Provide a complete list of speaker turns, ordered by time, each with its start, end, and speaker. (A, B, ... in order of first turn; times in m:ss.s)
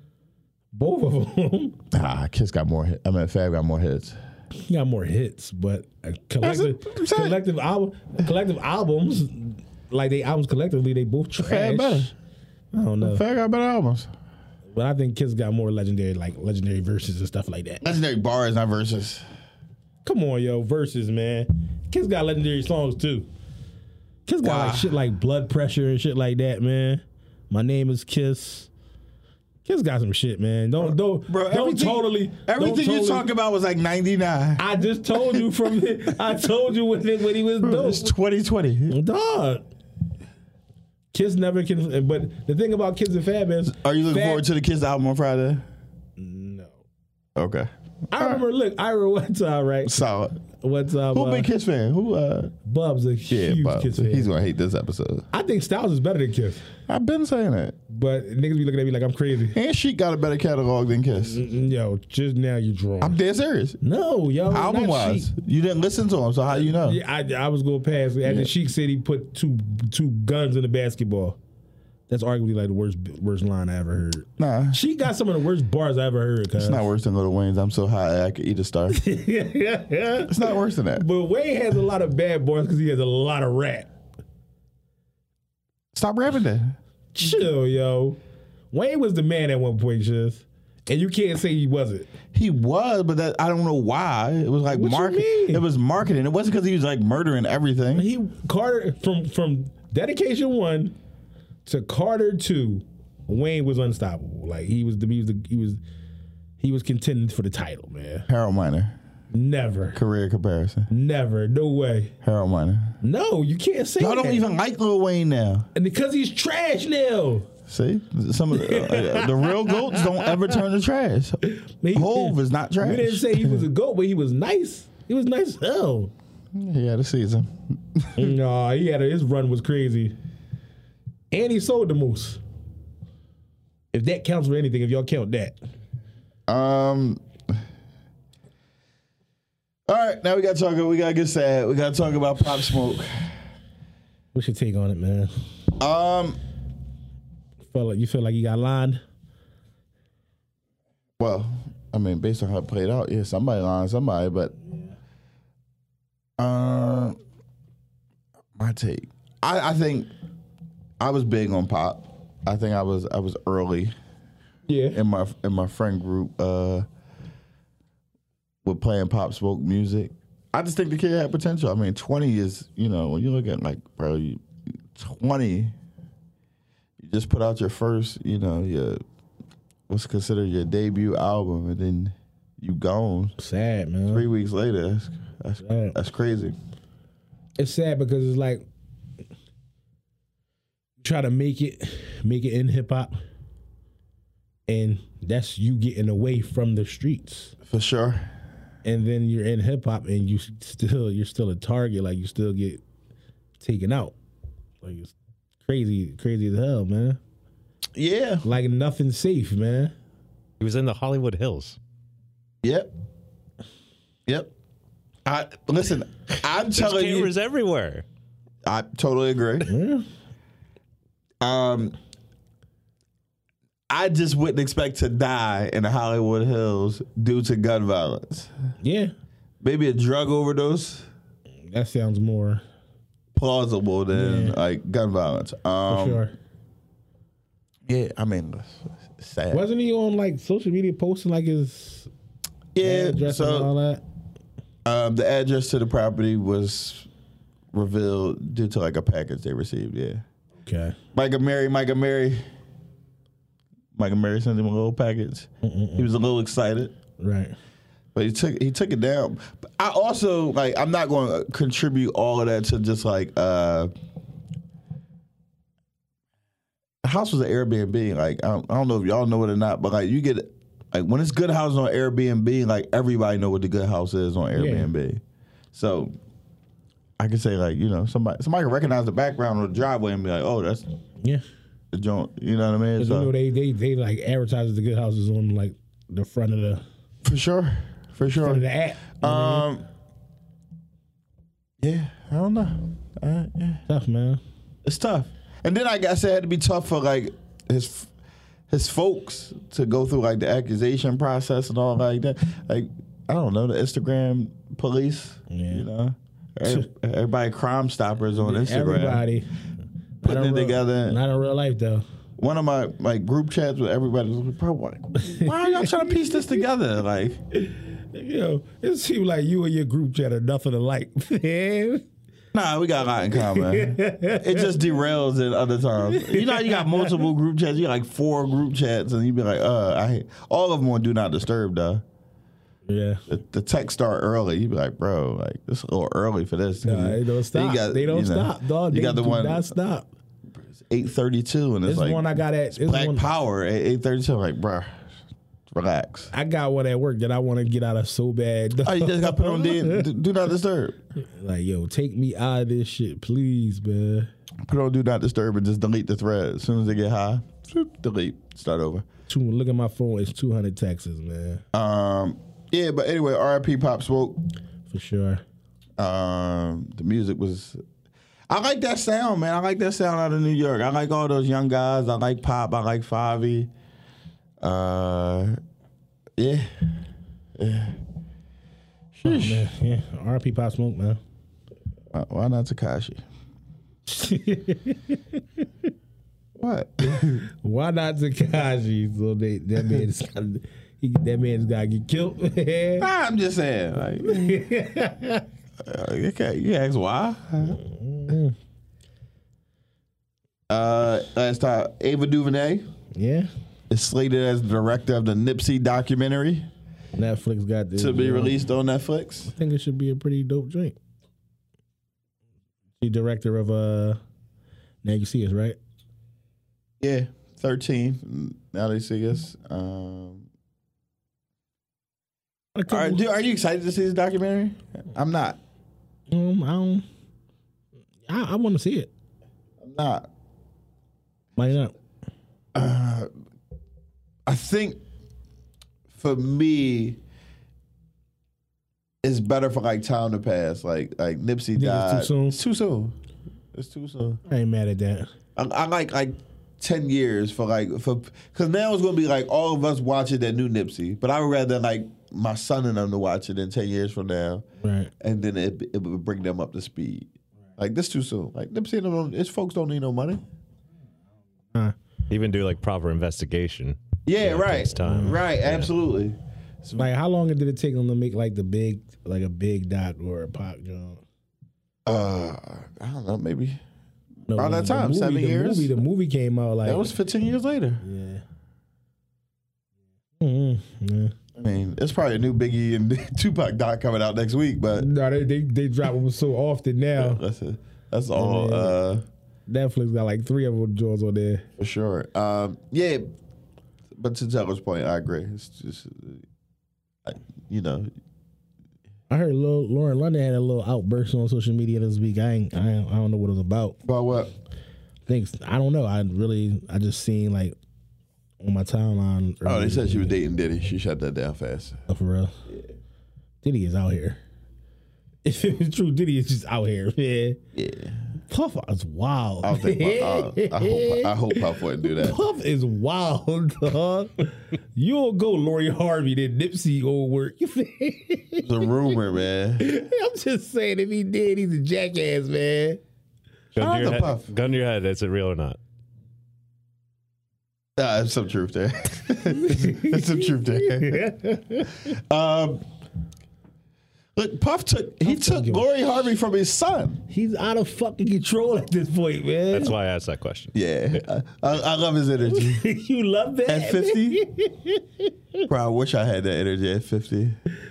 0:00.7-0:01.8 A
0:01.9-0:04.2 B
0:04.6-0:12.1 A
0:06.4-0:07.4 B
0:11.4-0:12.1 B
0:12.7-0:13.2 A
0:13.0-0:14.1 B
0:14.7-0:17.8 A
0:17.8-0:19.2 B
0:20.0-0:23.3 A
0:24.3-0:28.7 A
0:24.4-0:24.9 B
0:29.6-0:33.3 A
0:30.8-0:35.4 B
0:34.6-0:38.1 A
0:37.6-0:39.0 B
0:38.9-0:39.6 A
0:41.1-0:44.4 A
0:43.7-0:45.6 B
0:46.2-0:46.8 A
0:47.4-0:48.4 B
0:48.1-0:50.0 A
0:49.8-0:50.4 B
0:50.6-0:51.5 A
0:51.1-0:52.5 B
0:52.6-0:54.3 A
0:53.3-0:55.3 B
0:55.3-0:56.6 A
0:56.9-0:57.8 B
0:57.9-0:59.6 A
0:59.5-1:01.4 B
1:01.2-1:03.2 A
1:03.0-1:03.8 B
1:03.8-1:05.3 A
1:04.5-1:07.0 B
1:06.5-1:11.4 A
1:08.2-1:08.5 B
1:12.1-1:16.9 A
1:14.4-1:14.8 B
1:16.6-1:19.0 B
1:18.9-1:20.3 A
1:20.3-1:21.0 B
1:20.9-1:23.9 A
1:25.9-1:26.8 B
1:27.2-1:28.2 A
1:28.7-1:32.1 A
1:32.3-1:38.1 B
1:34.7-1:35.6 A
1:37.9-1:40.9 A
1:41.6-1:45.8 A
1:46.6-1:48.2 A
1:48.3-1:49.0 B
1:49.3-1:50.0 A
1:49.9-1:50.9 B
1:50.9-1:52.1 A
1:52.2-1:53.0 B
1:53.0-1:54.4 A
1:54.0-1:55.7 B
1:55.7-1:57.5 A
1:57.7-2:01.4 B
1:58.5-2:00.3 A
2:01.4-2:06.1 A
2:01.9-2:03.6 B
2:06.5-2:08.3 B
2:08.2-2:10.2 A
2:11.3-2:12.4 A
2:13.9-2:15.6 A
2:16.5-2:17.6 B
2:19.9-2:23.4 B
2:24.3-2:25.3 A
2:25.8-2:26.4 B
2:27.7-2:29.0 A
2:31.2-2:34.5 B
2:36.4-2:37.2 B
2:38.6-2:40.1 B
2:41.0-2:43.9 B
2:44.7-2:45.0 A
2:44.9-2:46.8 B
2:48.6-2:55.7 B
2:57.0-2:59.0 B
2:59.9-3:03.4 B
3:03.4-3:04.2 A
3:04.1-3:06.5 B
3:05.6-3:06.0 A
3:07.6-3:08.7 A
3:11.0-3:13.1 A
3:14.7-3:17.5 A
3:17.6-3:18.3 B
3:18.8-3:22.8 A
3:23.6-3:24.1 A
3:24.8-3:27.2 A
3:27.9-3:28.4 B
3:28.4-3:29.9 A
3:30.6-3:31.8 C
3:32.6-3:32.9 B
3:35.2-3:37.3 B
3:36.7-3:38.0 C
3:38.6-3:39.7 B
3:39.6-3:40.0 A
3:41.4-3:42.0 B
3:43.9-3:48.5 B
3:48.8-3:49.1 A
3:49.6-3:51.1 B
3:51.7-3:52.6 A
3:53.3-3:56.2 B
3:54.1-3:54.6 A
3:55.9-3:56.3 A
3:57.9-3:59.7 B
3:59.5-4:02.1 A
4:02.7-4:03.7 B
4:02.8-4:04.0 A
4:04.8-4:07.1 B
4:07.7-4:10.2 B
4:10.6-4:11.0 A
4:11.1-4:12.4 B
4:13.9-4:16.9 B
4:15.6-4:16.1 A
4:17.2-4:17.6 A
4:18.1-4:23.9 B
4:27.0-4:35.2 B
4:34.5-4:34.9 A
4:35.7-4:36.1 B
4:37.2-4:40.8 B
4:41.9-4:43.3 B
4:43.0-4:46.8 A
4:47.2-4:48.6 B
4:48.3-4:49.6 A
4:49.2-4:49.8 B
4:51.8-4:53.8 B
4:53.9-4:54.4 A
4:54.8-4:58.1 B
4:58.7-5:09.2 B
5:05.5-5:05.8 A
5:08.4-5:09.5 A
5:10.2-5:12.0 A
5:10.2-5:11.2 B
5:12.4-5:17.4 B
5:15.2-5:16.1 A
5:17.5-5:22.0 A
5:22.5-5:32.0 B
5:23.4-5:24.7 A
5:26.0-5:27.3 A
5:32.9-5:33.2 A
5:33.3-5:39.7 B
5:36.8-5:40.1 A
5:40.8-5:45.0 B
5:41.8-5:43.3 A
5:45.7-5:46.3 B
5:46.3-5:50.1 A
5:48.8-5:51.0 B
5:51.3-5:54.3 A
5:54.6-5:59.0 B
5:59.3-6:01.6 A
6:01.7-6:04.4 B
6:04.9-6:05.4 A
6:06.0-6:07.8 B
6:08.5-6:13.7 B
6:14.6-6:15.6 B
6:16.4-6:16.7 B
6:17.6-6:18.0 B
6:19.1-6:19.7 B
6:19.2-6:21.2 A
6:22.1-6:23.2 B
6:24.1-6:25.9 A
6:26.6-6:27.4 B
6:27.4-6:33.1 A
6:33.0-6:34.6 B
6:34.2-6:35.4 A
6:35.8-6:38.3 B
6:37.6-6:38.5 A
6:40.7-6:42.8 B
6:43.1-6:43.5 A
6:43.9-6:46.7 B
6:47.2-6:48.6 A
6:48.0-6:49.5 B
6:49.5-6:51.0 A
6:53.0-6:54.2 A
6:55.0-6:55.8 A
6:57.0-7:00.5 B
7:02.7-7:03.2 A
7:02.9-7:05.6 B
7:06.3-7:07.0 A
7:08.3-7:09.1 A
7:09.8-7:10.3 B
7:11.6-7:11.9 A
7:12.7-7:13.3 B
7:14.4-7:15.0 B
7:16.1-7:17.2 B
7:19.2-7:23.1 B
7:21.8-7:22.6 A
7:23.7-7:24.4 B
7:24.4-7:25.3 A
7:25.6-7:34.6 B
7:34.8-7:35.1 A
7:35.2-7:40.4 B
7:42.3-7:45.9 C
7:44.2-7:47.0 B
7:45.0-7:45.4 A
7:46.9-7:51.2 A
7:52.0-7:53.8 B
7:54.5-7:57.1 A
7:54.5-7:55.9 B
7:56.8-7:58.0 B
7:58.0-7:58.4 A
8:00.4-8:01.3 A
8:01.6-8:05.1 B
8:05.0-8:07.4 A
8:07.2-8:09.2 B
8:08.3-8:08.9 A
8:09.7-8:11.6 A
8:11.8-8:13.3 B
8:14.1-8:16.4 B
8:17.2-8:18.1 B
8:19.3-8:24.0 A
8:24.0-8:24.5 B
8:25.3-8:27.8 A
8:28.6-8:30.3 A
8:29.6-8:32.0 B
8:32.1-8:32.5 A
8:33.6-8:34.4 A
8:35.4-8:37.6 A
8:37.7-8:38.2 B
8:38.5-8:48.7 A
8:39.6-8:42.4 B
8:48.6-8:49.8 B
8:49.8-8:53.0 A
8:53.8-8:55.8 C
8:53.8-8:54.5 B
8:58.0-9:01.2 B
8:59.6-9:02.0 A
9:02.0-9:02.8 B
9:04.3-9:07.2 B
9:05.2-9:05.9 A
9:07.3-9:09.9 A
9:09.7-9:10.7 C
9:10.7-9:12.8 B
9:12.5-9:15.6 A
9:13.6-9:14.4 B
9:15.7-9:17.6 B